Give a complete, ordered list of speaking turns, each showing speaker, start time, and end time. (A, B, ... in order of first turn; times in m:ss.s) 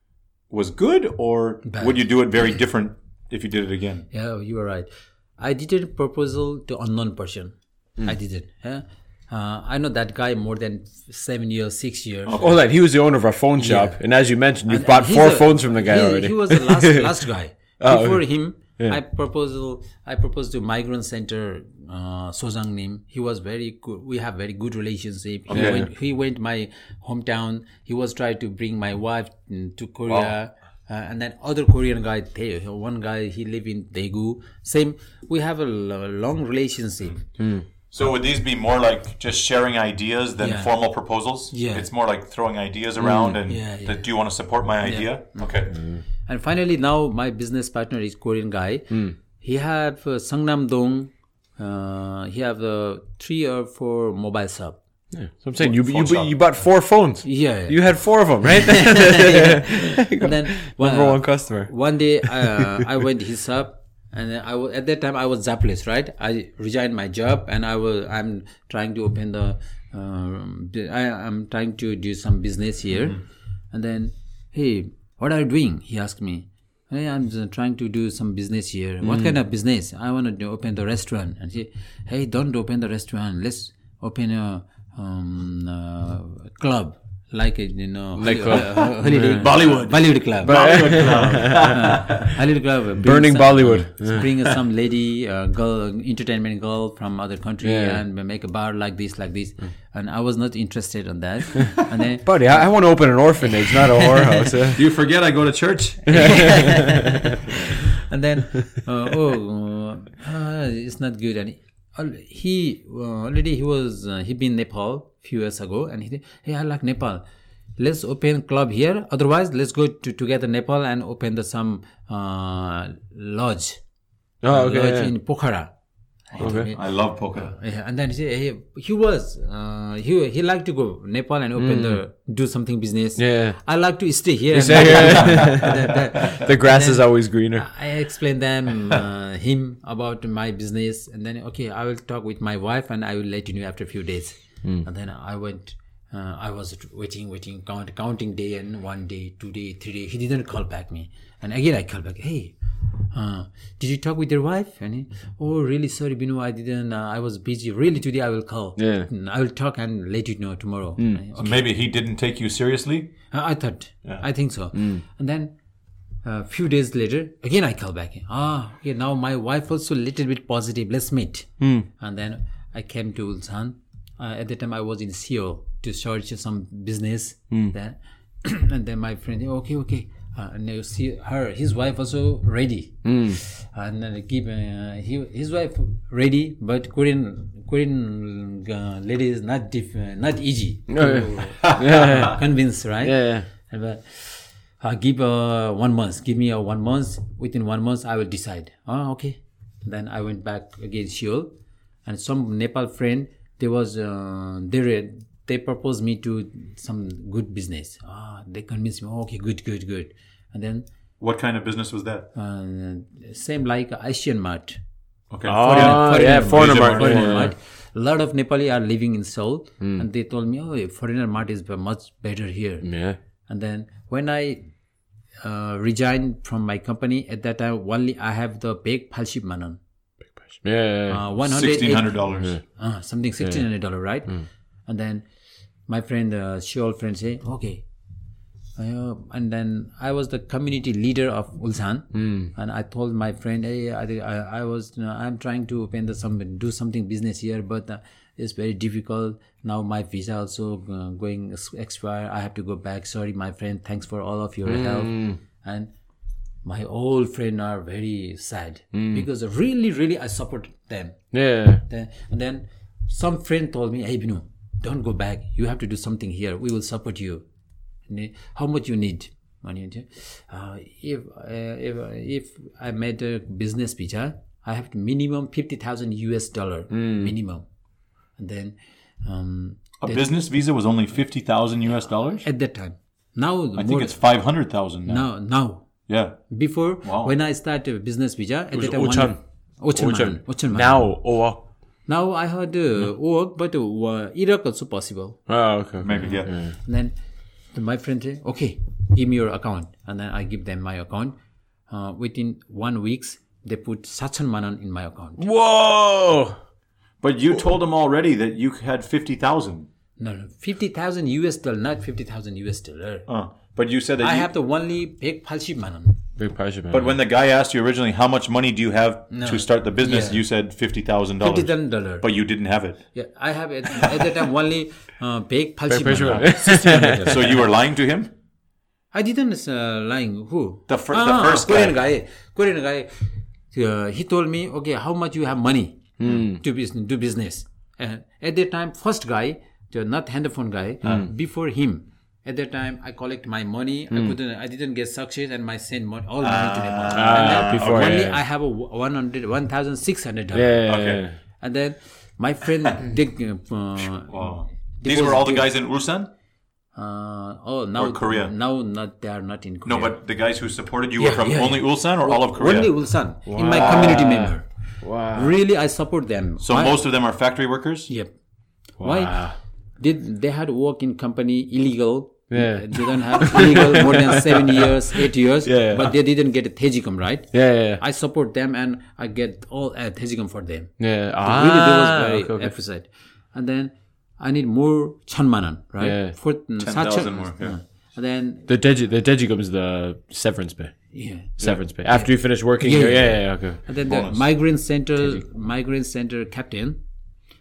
0:00.5-0:04.0 A
0:01.6-0:02.0 B
0:04.1-0:12.4 B
0:12.2-0:12.5 A
0:12.4-0:17.1 C
0:13.6-0:14.0 B
0:14.7-0:37.2 B
0:17.8-0:18.2 C
0:25.5-0:25.9 A
0:25.5-0:25.9 C
0:30.1-0:30.3 A
0:37.4-0:37.6 C
0:37.9-0:45.7 A
0:40.4-0:40.7 B
0:41.5-0:41.9 B
0:43.0-0:43.4 C
0:43.4-0:44.0 B
0:44.8-0:45.5 B
0:45.7-0:46.0 C
0:46.2-0:54.8 B
0:55.1-1:01.7 C
0:55.6-0:56.4 A
0:57.2-0:57.8 B
0:58.4-1:13.2 B
1:02.2-1:02.8 C
1:13.7-1:42.6 B
1:19.0-1:19.4 C
1:28.2-1:29.5 C
1:29.3-1:32.3 A
1:30.4-1:31.9 C
1:33.0-1:34.2 C
1:37.6-1:38.0 C
1:42.2-1:44.8 C
1:43.4-1:44.6 B
1:44.7-1:46.4 A
1:46.1-1:47.4 C
1:46.1-1:57.2 B
1:57.8-2:03.8 B
2:04.4-2:05.1 C
2:04.5-2:05.7 B
2:06.3-2:06.8 B
2:06.4-2:06.7 C
2:06.4-2:07.5 A
2:07.3-2:32.5 B
2:11.6-2:12.0 C
2:13.2-2:13.6 C
2:14.5-2:17.7 C
2:15.0-2:15.9 A
2:33.1-2:41.6 B
2:38.8-2:39.1 C
2:41.4-2:43.1 A
2:43.3-2:45.5 B
2:44.7-2:45.0 C
2:46.2-3:21.5 B
2:51.6-2:51.9 C
3:03.0-3:03.4 C
3:10.9-3:12.4 C
3:13.0-3:13.5 C
3:22.0-3:30.8 B
3:31.2-3:32.3 A
3:32.3-3:34.8 B
3:35.3-3:37.5 A
3:35.5-3:37.5 C
3:35.6-3:42.9 B
3:42.8-3:43.2 C
3:43.5-3:44.6 B
3:45.4-3:49.8 B
3:50.6-3:51.2 C
3:51.1-3:54.3 B
3:51.4-3:52.6 A
3:54.9-3:55.2 B
3:55.9-3:57.8 B
3:58.8-4:15.9 B
4:02.1-4:02.5 C
4:14.6-4:15.4 C
4:16.6-4:21.3 B
4:18.9-4:19.2 C
4:21.3-4:21.8 C
4:21.9-4:27.4 B
4:28.1-4:37.6 B
4:36.9-4:37.3 C
4:38.4-4:40.3 B
4:40.0-4:42.4 A
4:42.4-4:44.2 B
4:43.7-4:45.3 A
4:45.0-4:45.8 B
4:46.1-4:46.4 A
4:46.5-4:51.1 B
4:47.0-4:47.3 A
4:48.7-4:49.4 C
4:49.9-4:51.6 C
4:52.1-4:55.4 B
4:55.5-4:56.7 C
4:56.0-4:56.5 A
4:56.8-4:57.1 B
4:57.7-5:01.4 B
5:01.9-5:05.4 B
5:05.4-5:06.6 C
5:07.2-5:09.9 A
5:10.2-5:13.2 B
5:13.3-5:14.5 A
5:14.2-5:16.2 B
5:16.4-5:17.1 C
5:16.9-5:23.0 A
5:19.3-5:20.4 B
5:21.4-5:22.3 B
5:23.1-5:27.6 B
5:25.9-5:27.4 C
5:27.2-5:28.3 A
5:29.1-5:33.1 B
5:30.9-5:32.0 A
5:33.7-5:50.8 B
5:36.2-5:36.6 C
5:46.4-5:48.3 A
5:47.1-5:48.4 C
5:50.5-5:51.3 C
5:50.9-5:51.2 A
5:51.6-5:55.7 B
5:54.3-5:56.3 A
5:56.9-6:00.2 B
5:58.0-5:58.5 A
5:59.8-6:02.9 A
6:01.2-6:04.6 B
6:03.5-6:05.6 C
6:05.3-6:07.0 B
6:06.6-6:08.1 A
6:09.0-6:09.5 C
6:09.0-6:28.7 B
6:12.5-6:16.1 C
6:17.5-6:18.0 C
6:21.0-6:22.7 C
6:26.0-6:26.3 C
6:26.8-6:27.8 A
6:28.7-6:30.9 C
6:31.1-6:37.0 B
6:31.6-6:33.8 C
6:34.0-6:34.4 A